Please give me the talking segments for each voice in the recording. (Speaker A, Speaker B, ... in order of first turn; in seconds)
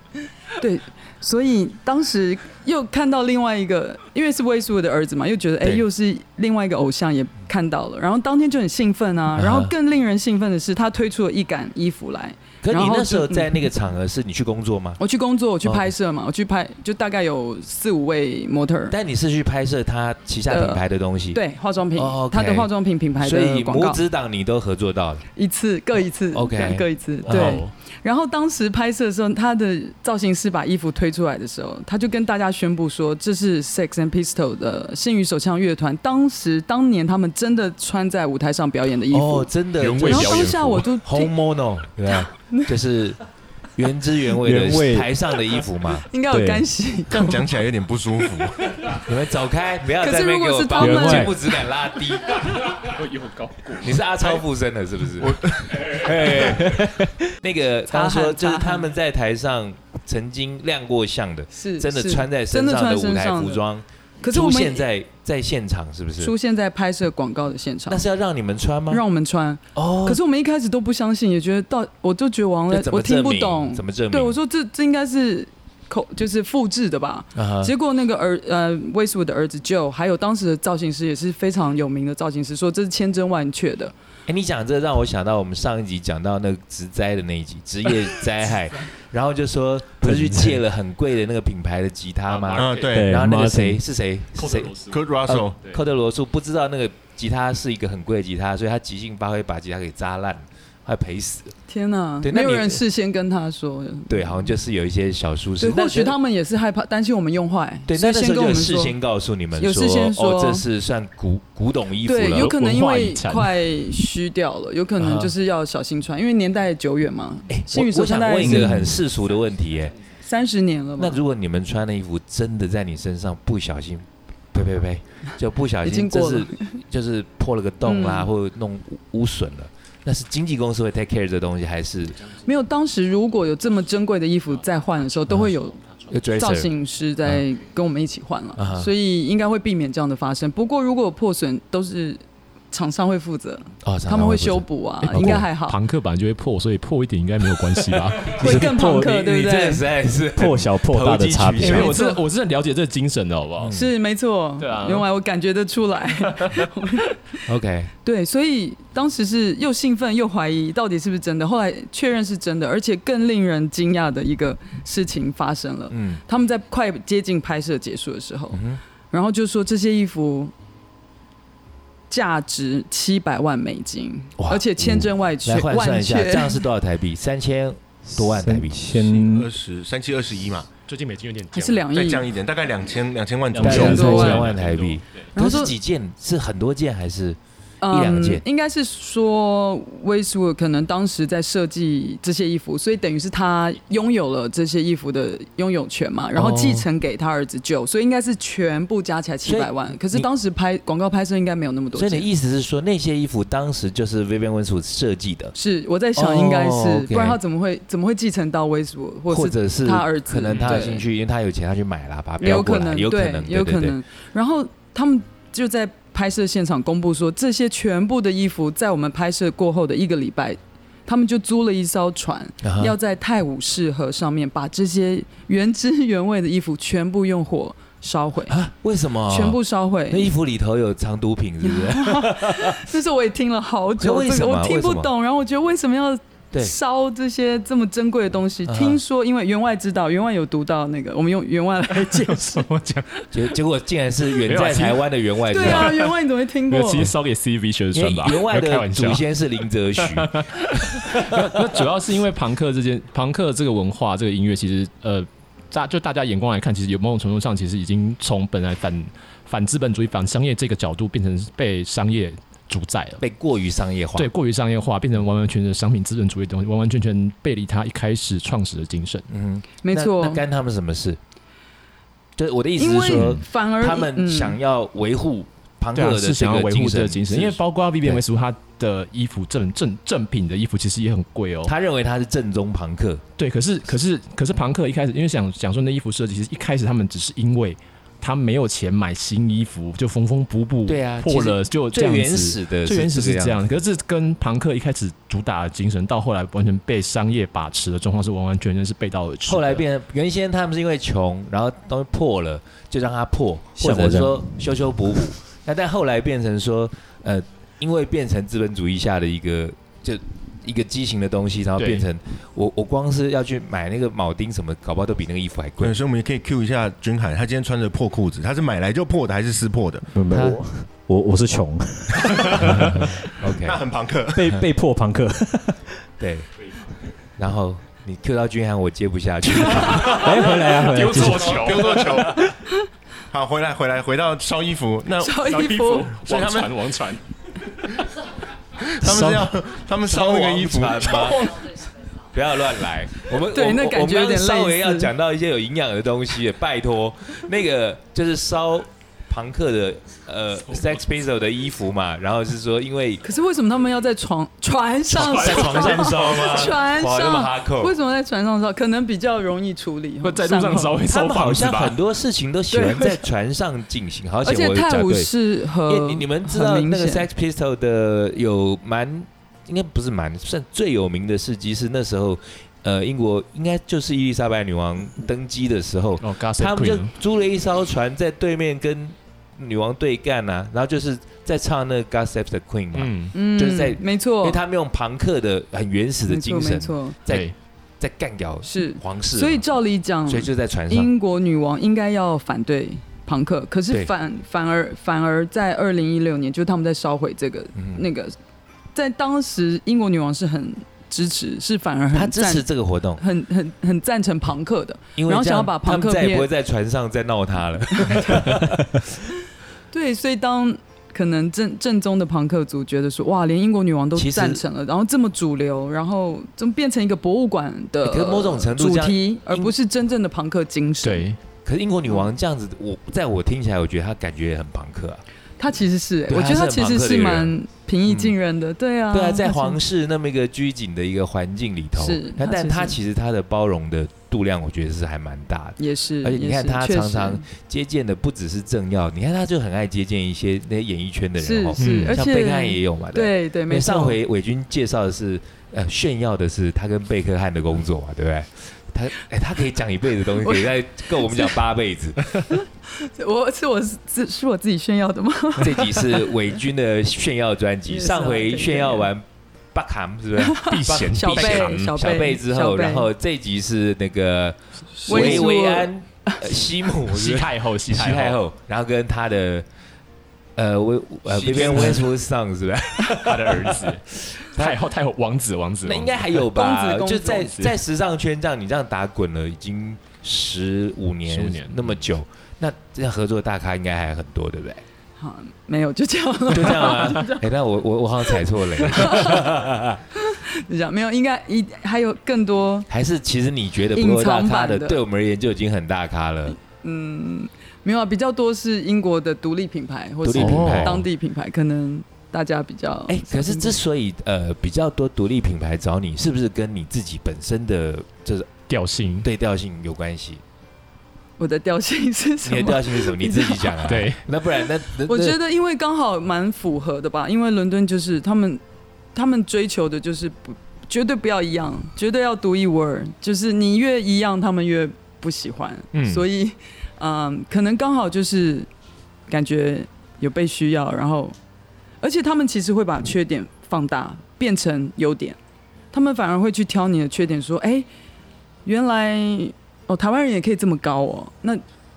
Speaker A: 0.6-13.6, 15.0-18.9, 20.5-20.8, 21.3-24.0, 25.3-39.5, 40.0-41.3, 42.1-42.7, 46.1-47.4, 50.0-51.6, 57.9-58.9, 61.5-63.6, 64.2-64.9, 66.2-68.0, 68.9-83.9, 101.7-104.5, 105.6-109.0, 109.5-110.6, 112.0-118.8, 120.2-121.2, 125.8-126.8, 127.8-128.3, 132.4-135.8, 136.4-145.8, 148.4-149.8, 151.6-152.2, 153.7-157.2, 158.0-170.5, 172.1-176.6, 181.5-182.2, 183.6-184.5, 185.3-185.7, 187.8-202.3, 205.6-211.0, 212.4-228.6, 229.3-230.3, 231.6-242.7, 245.5-247.1, 269.8-270.4, 272.8-274.6, 335.2-336.1, 343.5-345.1, 353.2-361.0, 362.7-363.2, 364.4-367.3, 383.3-384.6, 386.3-387.2, 388.6-398.3, 398.9-402.7, 403.2-406.5, 408.0-408.4, 409.9-421.3, 425.6-429.8, 431.9-433.0, 435.8-437.5, 441.4-444.2, 450.4-451.6, 452.5-456.3, 457.9-459.1, 460.4-463.1, 465.1-466.5, 476.5-477.6, 485.2-487.4, 488.7-489.5, 490.1-492.9, 493.9-495.0, 496.6-503.8, 511.4-514.0, 515.0-518.6, 519.1-528.7, 529.3-531.4, 532.0-535.4, 535.9-537.9, 538.6-541.6
Speaker B: 9.4-9.7, 12.6-15.0, 15.6-15.9, 18.9-21.4, 21.9-25.2, 26.3-27.6, 39.1-43.2, 43.8-46.1, 48.9-53.0, 53.7-66.3, 67.9-69.0, 69.7-70.2, 72.7-74.4, 77.3-77.7, 84.2-101.5, 102.2-102.8, 104.1-106.2, 107.9-112.5, 117.5-120.0, 121.0-132.2, 136.1-136.7, 138.6-138.9, 143.8-145.4, 147.9-151.9, 153.6-153.9, 157.4-157.9, 165.9-166.2, 168.5-168.8, 174.4-179.1, 183.6-187.4, 187.9-188.4, 196.3-196.9, 199.4-200.3, 201.9-205.6, 206.2-207.4, 209.3-213.9, 222.6-222.9, 228.5-232.9, 234.0-235.1, 238.7-239.0, 243.3-246.0, 247.9-251.8, 263.2-264.3, 269.3-271.2, 272.4-278.2, 281.6-283.2, 290.9-293.7, 299.5-316.0, 320.3-320.6, 322.6-323.8, 326.2-326.5, 327.4-330.3, 340.0-341.6, 342.3-353.3, 355.2-357.9, 361.0-389.6, 390.3-391.1, 397.8-398.1, 402.1-403.2, 405.1-409.1, 414.1-414.6, 418.0-419.7, 421.6-425.2, 426.3-427.5, 428.1-428.3, 429.1-452.4, 455.6-469.6, 470.6-474.8, 475.8-484.8, 486.5-490.0, 492.9-496.6, 500.2-501.1, 503.1-508.6, 509.2-510.4, 512.4-515.4
Speaker C: 27.2-27.7, 39.8-40.9, 52.6-54.0, 92.3-92.9, 94.4-95.8, 112.3-113.6, 118.4-119.0, 145.0-148.4, 151.6-153.7, 154.6-155.1, 180.9-181.9, 183.6-185.0, 210.5-210.8, 242.0-243.3, 244.4-246.1, 246.7-249.2, 250.0-263.2, 264.1-269.3, 275.9-281.7, 283.4-299.8, 311.8-312.1, 329.5-332.4, 335.4-337.2, 341.1-341.5, 355.1-356.7, 360.2-362.0, 376.2-377.1, 382.9-383.3, 387.3-387.5, 421.0-421.4, 441.8-442.2, 460.7-461.9, 465.1-465.4, 467.1-468.4, 471.3-472.1, 473.1-476.4, 481.3-482.0, 500.3-501.0, 508.7-509.3, 513.8-514.2, 525.9-526.2
Speaker D: 44.4-45.1, 46.3-46.7, 50.8-51.4, 56.6-57.1, 90.0-90.6, 92.9-93.8, 148.4-149.4, 150.3-151.9, 178.1-179.5, 183.5-184.4, 303.8-304.6, 320.1-323.2, 324.3-325.9, 330.1-332.5, 339.0-339.5
Speaker E: 47.1-48.9, 55.2-55.9, 92.5-93.2, 94.9-95.6, 179.1-180.7, 181.9-184.3, 315.8-320.1, 322.3-322.7, 323.5-324.5, 331.2-332.5, 333.3-335.5, 336.2-336.8, 338.9-341.4